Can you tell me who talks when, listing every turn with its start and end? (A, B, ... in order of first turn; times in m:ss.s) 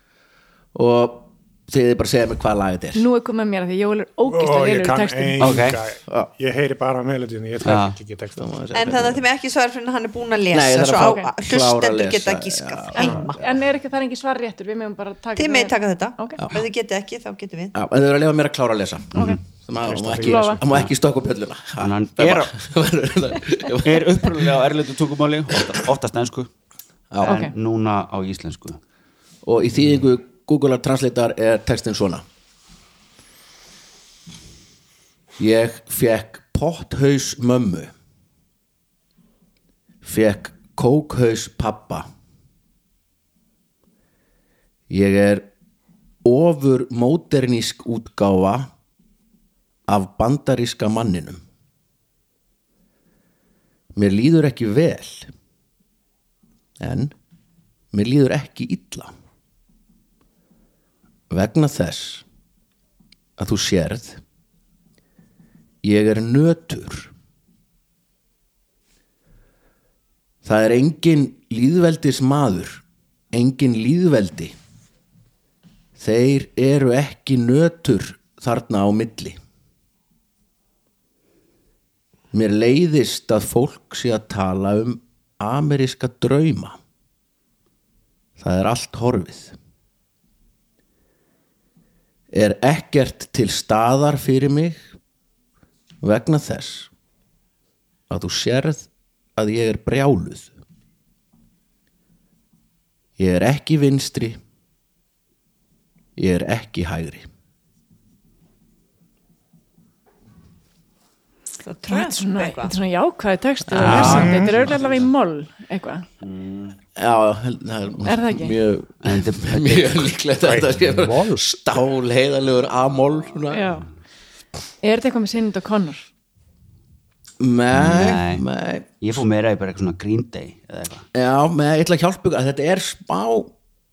0:00.7-0:03.0 A
0:03.0-0:05.6 B
0:04.3-0:08.5 C
0:05.4-0:05.8 D
0:07.6-0:08.0 D
0:08.4-0:09.2 A
0:08.7-0:13.4 E
0:10.5-0:13.3 A
0:13.0-0:16.4 B
0:15.4-0:17.8 E
0:16.4-0:16.6 A
0:17.7-0:24.5 A
0:19.1-0:19.4 D
0:19.8-0:20.6 C
0:20.2-0:20.6 B
0:21.8-0:22.6 D
0:23.8-0:26.5 D
0:27.1-0:27.4 A
0:27.2-0:28.8 D
0:27.2-0:27.5 B
0:29.4-0:32.2 A
0:35.4-0:37.9 A
0:40.0-0:42.1 A
0:44.9-0:45.5 A
0:46.2-0:48.7 A
0:49.9-0:51.4 A
0:54.0-0:55.3 A
0:56.8-0:57.2 A
0:57.9-0:59.1 A
1:01.3-1:02.2 A
1:03.4-1:04.2 A
1:05.8-1:07.1 A
1:10.4-1:14.6 A
1:16.0-1:19.4 A
1:22.3-1:26.8 A
1:28.4-1:29.6 A
1:32.3-1:34.9 A
1:36.0-1:36.9 A
1:38.1-1:40.5 A
1:43.2-1:44.4 A
1:46.2-1:47.3 A
1:51.6-1:52.7 E
1:51.9-1:56.1 B
1:53.7-1:54.4 A
1:53.8-1:55.0 D
1:54.0-1:54.6 C
1:56.2-1:56.8 D
1:57.0-2:03.7 A
1:58.0-1:58.6 B
1:59.0-2:00.1 D
2:00.4-2:01.4 C
2:03.5-2:03.9 B
2:04.8-2:06.1 B
2:07.4-2:09.0 A
2:07.7-2:08.4 D
2:09.0-2:11.1 D
2:11.1-2:13.5 A